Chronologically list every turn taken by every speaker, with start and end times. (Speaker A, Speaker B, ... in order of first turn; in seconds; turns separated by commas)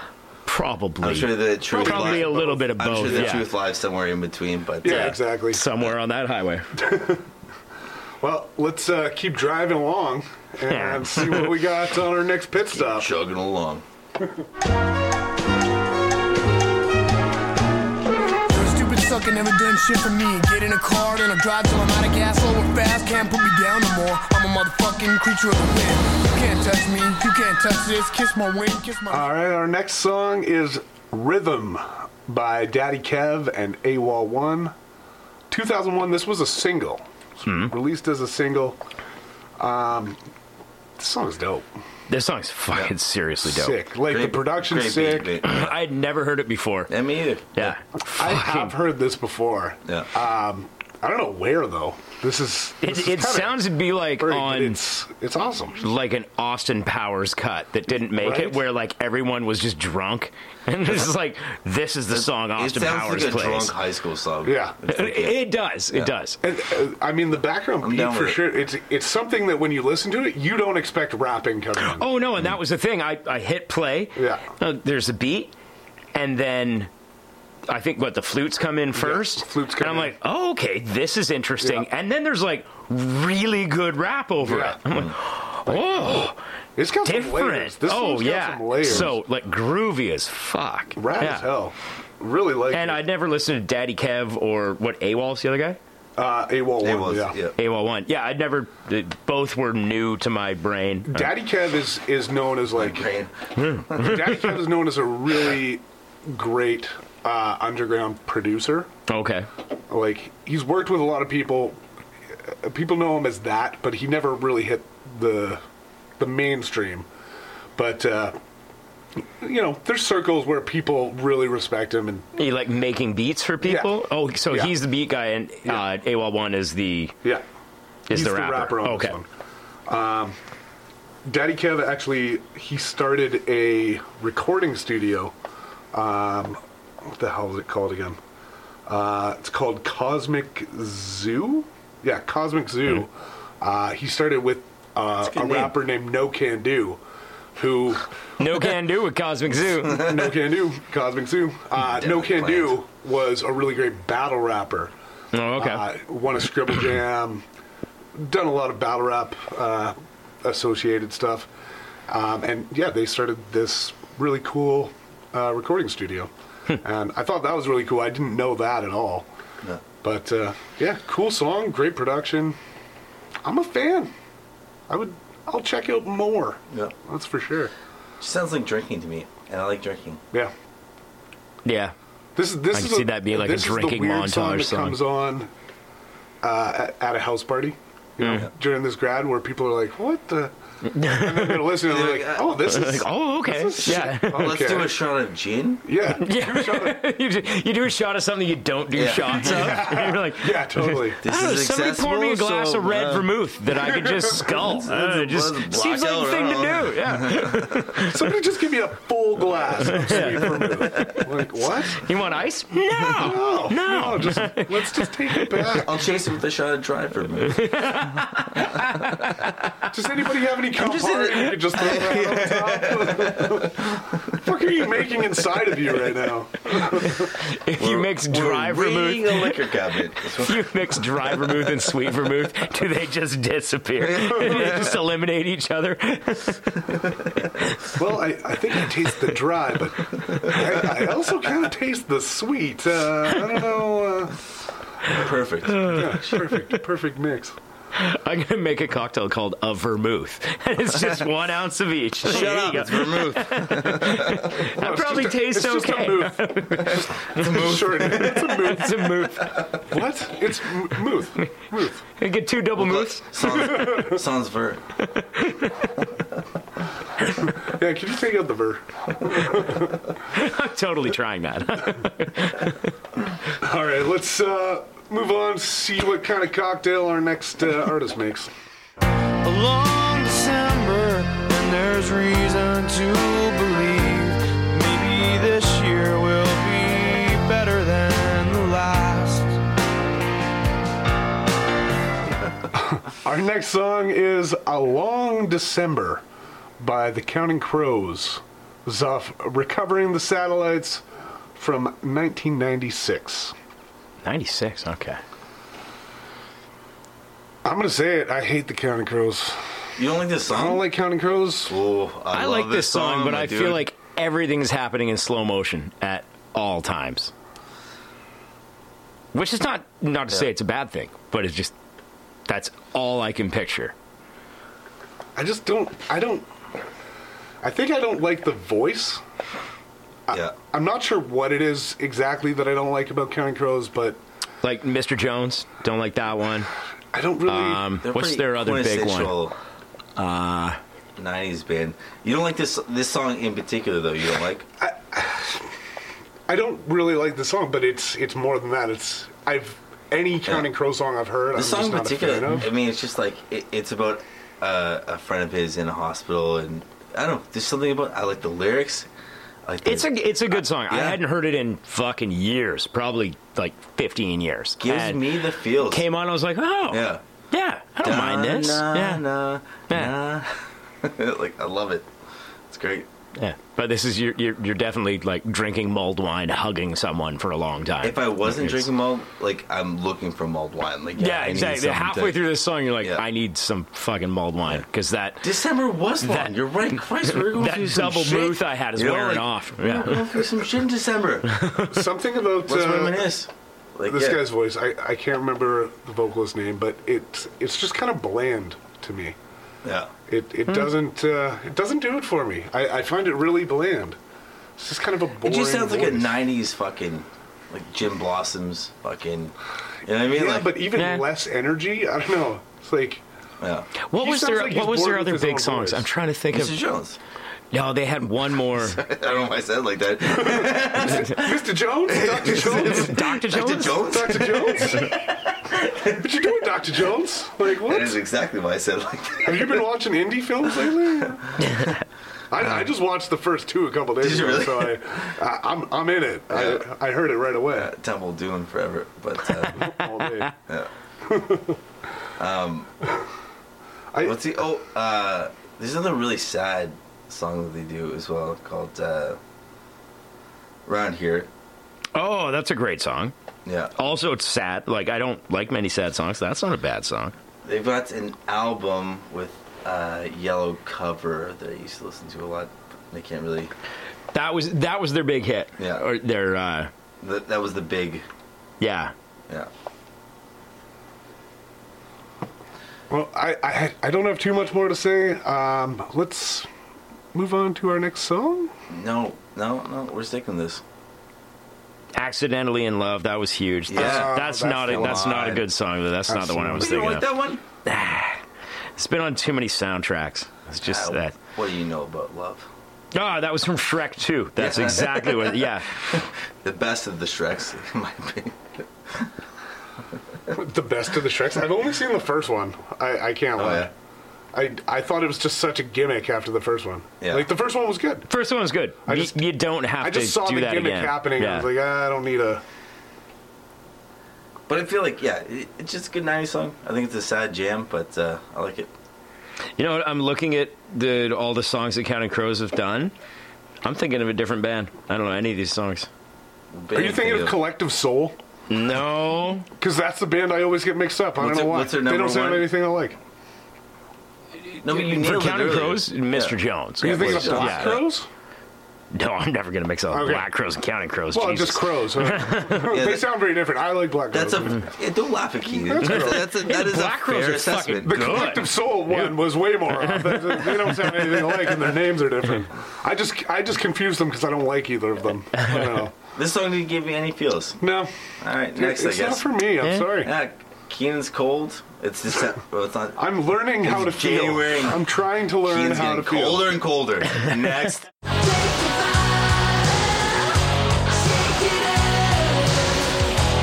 Speaker A: 0.5-3.5, Speaker B: 1.0-5.2, Speaker C: 1.7-3.4, Speaker C: 4.8-5.7, Speaker A: 4.8-6.7, Speaker C: 6.8-7.2, Speaker C: 8.2-13.1, Speaker A: 10.7-11.6, Speaker B: 12.7-13.8, Speaker D: 18.5-29.3, Speaker C: 29.1-34.8, Speaker C: 35.5-38.8, Speaker A: 37.5-37.7, Speaker C: 39.6-40.2, Speaker C: 41.0-41.7, Speaker A: 42.1-43.8, Speaker C: 43.4-45.4, Speaker B: 44.1-45.7, Speaker A: 45.4-46.9, Speaker B: 46.9-47.7, Speaker A: 47.6-48.8, Speaker C: 48.0-53.6, Speaker A: 52.8-54.8, Speaker C: 54.2-55.8, Speaker A: 55.8-63.7, Speaker C: 58.1-58.6, Speaker B: 62.1-66.1, Speaker C: 64.5-64.8, Speaker A: 64.9-66.4, Speaker C: 66.4-72.1, Speaker B: 67.8-68.4, Speaker A: 71.8-75.5, Speaker C: 74.2-74.5, Speaker A: 76.1-76.9, Speaker A: 77.7-86.4, Speaker C: 79.0-80.2, Speaker C: 81.6-81.9, Speaker C: 84.4-84.8, Speaker C: 85.7-89.1, Speaker A: 87.0-91.5, Speaker C: 91.0-93.0, Speaker A: 92.7-95.8, Speaker C: 96.2-97.4, Speaker B: 96.8-97.6, Speaker A: 97.6-101.3, Speaker C: 101.1-103.1, Speaker B: 102.8-104.1, Speaker A: 103.6-104.5, Speaker C: 103.9-108.9, Speaker A: 109.1-109.5, Speaker C: 109.9-111.8, Speaker C: 112.4-115.6, Speaker C: 116.2-117.1, Speaker C: 117.8-118.4, Speaker C: 119.2-122.3, Speaker A: 122.4-127.2, Speaker C: 123.6-123.9, Speaker C: 124.5-124.8, Speaker A: 128.1-129.2, Speaker C: 128.1-129.3, Speaker C: 129.9-130.4, Speaker C: 131.3-135.3, Speaker C: 135.9-138.2, Speaker C: 138.9-147.0, Speaker B: 145.2-145.8, Speaker C: 147.6-148.1, Speaker A: 148.4-150.1, Speaker C: 149.8-154.9, Speaker B: 151.8-152.8, Speaker A: 155.3-155.9, Speaker C: 155.6-157.4, Speaker C: 158.2-161.5, Speaker C: 162.1-169.3, Speaker C: 170.0-172.6, Speaker C: 173.4-174.1, Speaker C: 174.9-177.7, Speaker B: 176.7-176.9, Speaker B: 178.2-180.2, Speaker A: 181.7-181.9, Speaker C: 182.4-185.5, Speaker A: 182.7-185.0, Speaker C: 186.4-195.0, Speaker A: 188.2-188.5, Speaker A: 190.8-191.8, Speaker B: 191.9-192.6, Speaker A: 192.6-194.7, Speaker B: 193.8-195.9, Speaker C: 195.8-197.0, Speaker A: 196.2-208.3, Speaker B: 198.9-200.0, Speaker C: 199.3-201.2, Speaker B: 201.2-203.3, Speaker C: 203.7-204.8, Speaker B: 204.4-208.0, Speaker C: 208.0-212.1, Speaker A: 209.8-215.8, Speaker C: 213.2-215.9, Speaker B: 215.7-218.2, Speaker A: 217.5-219.8, Speaker C: 219.9-227.3, Speaker B: 220.8-224.4, Speaker A: 227.0-229.6, Speaker B: 227.8-231.4, Speaker A: 230.4-237.0, Speaker B: 234.0-234.9, Speaker C: 234.4-234.8, Speaker A: 237.6-238.0, Speaker C: 237.9-244.4, Speaker B: 245.1-246.1, Speaker A: 245.8-246.7, Speaker C: 245.8-247.6, Speaker A: 247.9-259.7, Speaker B: 252.2-254.6, Speaker C: 254.6-262.0, Speaker B: 257.4-258.5, Speaker A: 262.2-264.1, Speaker B: 262.8-264.8, Speaker C: 263.6-264.2, Speaker A: 265.2-266.0, Speaker C: 267.4-270.0, Speaker A: 270.3-272.9, Speaker C: 273.6-278.5, Speaker E: 279.4-289.6, Speaker C: 292.7-296.2, Speaker C: 296.8-301.0, Speaker C: 301.6-303.6, Speaker A: 304.2-305.2, Speaker C: 307.6-309.6, Speaker B: 310.0-310.9, Speaker C: 310.5-311.8, Speaker B: 311.7-313.9, Speaker A: 312.3-317.3, Speaker A: 319.3-321.7, Speaker A: 322.5-323.9, Speaker C: 325.4-326.5, Speaker C: 327.6-329.2, Speaker C: 330.3-334.2, Speaker A: 334.6-336.7, Speaker C: 337.1-337.9, Speaker A: 337.5-339.4, Speaker B: 338.0-339.6, Speaker A: 340.2-340.8, Speaker B: 341.2-344.7, Speaker C: 344.8-345.7, Speaker C: 346.5-352.7, Speaker B: 351.5-359.1, Speaker B: 359.6-361.2, Speaker A: 359.9-365.3, Speaker B: 364.8-366.1, Speaker A: 365.9-369.2, Speaker B: 366.9-367.2, Speaker B: 368.0-372.1, Speaker B: 372.7-373.1, Speaker A: 373.4-378.9, Speaker B: 378.0-382.4, Speaker A: 381.2-385.4, Speaker B: 385.4-391.6, Speaker A: 386.2-386.5, Speaker A: 387.2-390.4, Speaker A: 391.5-392.0, Speaker C: 391.8-393.3, Speaker B: 392.6-394.4, Speaker C: 394.1-399.4, Speaker B: 399.8-400.1, Speaker C: 400.3-404.2, Speaker C: 404.8-406.4, Speaker B: 405.4-410.8, Speaker C: 410.2-413.2, Speaker A: 410.9-411.3, Speaker B: 413.6-413.9, Speaker A: 414.1-416.8, Speaker C: 414.2-416.1, Speaker B: 416.5-417.2, Speaker A: 417.7-419.0, Speaker B: 418.8-426.3, Speaker C: 420.3-423.2, Speaker A: 422.4-424.3, Speaker C: 423.8-425.1, Speaker C: 426.1-428.2, Speaker B: 427.8-429.9, Speaker C: 429.4-431.6, Speaker C: 432.5-437.9, Speaker B: 434.2-435.3, Speaker B: 436.5-436.9, Speaker B: 437.7-440.0, Speaker C: 439.8-440.5, Speaker C: 441.2-441.8, Speaker B: 442.4-442.9, Speaker C: 444.1-444.4, Speaker B: 444.2-449.4, Speaker B: 450.9-451.5, Speaker A: 452.1-453.3, Speaker B: 453.7-453.9, Speaker A: 454.0-457.3, Speaker B: 457.6-463.7, Speaker A: 464.3-466.9, Speaker B: 465.8-466.0, Speaker B: 467.2-468.3, Speaker A: 468.8-469.1, Speaker C: 473.1-476.7, Speaker C: 477.3-478.7, Speaker B: 478.9-480.8, Speaker A: 482.1-487.3, Speaker B: 483.9-485.6, Speaker C: 483.9-485.6, Speaker C: 486.3-487.2, Speaker B: 486.8-487.6, Speaker A: 487.9-488.4, Speaker A: 489.0-491.4, Speaker B: 490.8-492.7, Speaker A: 493.1-496.0, Speaker B: 494.6-499.3, Speaker C: 500.5-503.9, Speaker B: 503.6-503.9, Speaker C: 504.5-508.3, Speaker B: 507.2-507.5, Speaker A: 508.3-511.7, Speaker C: 509.1-509.4, Speaker C: 510.0-512.6, Speaker B: 514.7-518.9, Speaker A: 519.8-523.1, Speaker A: 523.8-526.1, Speaker B: 526.7-527.6, Speaker C: 527.0-528.4, Speaker A: 528.7-529.7, Speaker C: 529.8-533.2, Speaker B: 531.4-532.7, Speaker A: 534.7-538.0, Speaker B: 534.8-538.1, Speaker C: 537.0-538.3, Speaker A: 539.1-543.0, Speaker C: 540.1-540.5, Speaker C: 541.3-544.8, Speaker B: 542.9-543.3, Speaker B: 544.3-548.5, Speaker C: 545.8-546.5, Speaker A: 546.0-551.7, Speaker C: 548.0-556.1, Speaker A: 555.6-556.0, Speaker B: 556.3-557.8, Speaker C: 557.8-558.1, Speaker B: 558.4-559.5, Speaker C: 558.7-560.3, Speaker A: 559.8-560.1, Speaker B: 560.2-563.2, Speaker C: 563.2-566.8, Speaker B: 563.8-565.0, Speaker B: 565.6-568.1, Speaker E: 568.3-570.5, Speaker E: 571.1-573.2